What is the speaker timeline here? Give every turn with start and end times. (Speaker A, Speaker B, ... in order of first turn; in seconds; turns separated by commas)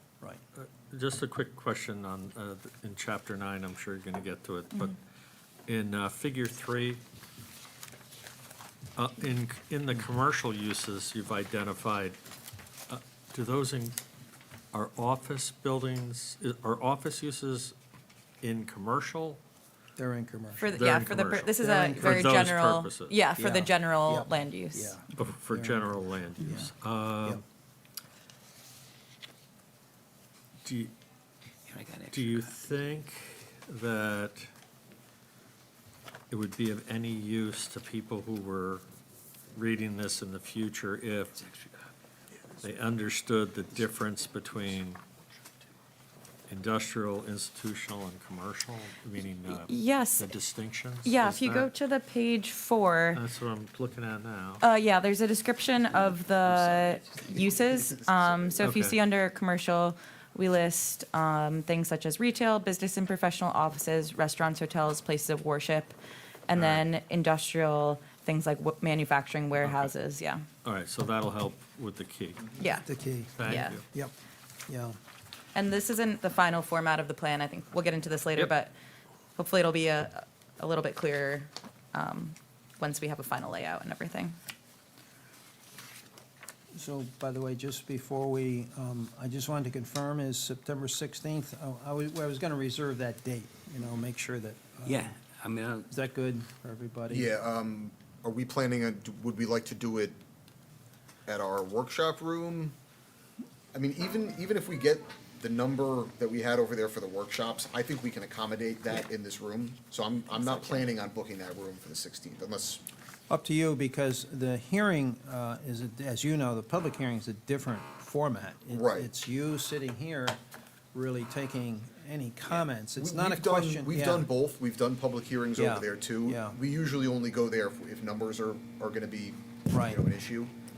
Speaker A: 0.6-5.0, Speaker A: 5.7-7.0, Speaker A: 9.0-12.2, Speaker A: 12.9-14.0, Speaker A: 14.7-17.8, Speaker A: 18.4-19.4, Speaker B: 20.0-20.7, Speaker C: 20.6-25.0, Speaker A: 20.6-23.2, Speaker B: 21.6-22.5, Speaker B: 23.4-27.4, Speaker A: 25.1-27.4, Speaker A: 30.6-30.9, Speaker D: 31.7-32.6, Speaker A: 32.1-34.5, Speaker A: 36.3-38.8, Speaker A: 39.5-41.4, Speaker D: 41.4-41.8, Speaker A: 42.6-45.0, Speaker A: 46.5-51.7, Speaker C: 49.5-50.3, Speaker C: 51.0-53.2, Speaker A: 53.1-54.6, Speaker C: 54.6-66.0, Speaker E: 57.2-58.7, Speaker A: 58.6-59.0, Speaker C: 66.5-70.5, Speaker A: 66.5-66.9, Speaker A: 69.6-69.9, Speaker A: 70.6-72.6, Speaker C: 72.6-72.9, Speaker B: 72.8-74.1, Speaker A: 73.4-73.8, Speaker C: 73.4-73.8, Speaker B: 74.7-75.0, Speaker C: 75.5-78.7, Speaker C: 79.4-84.4, Speaker B: 86.7-95.1, Speaker D: 94.8-95.9, Speaker B: 95.9-97.3, Speaker E: 97.1-100.2, Speaker E: 101.3-102.8, Speaker E: 103.7-112.8, Speaker B: 113.3-120.4, Speaker E: 118.7-119.1, Speaker B: 120.9-124.3, Speaker E: 122.5-130.5, Speaker B: 125.6-126.6, Speaker B: 129.7-130.0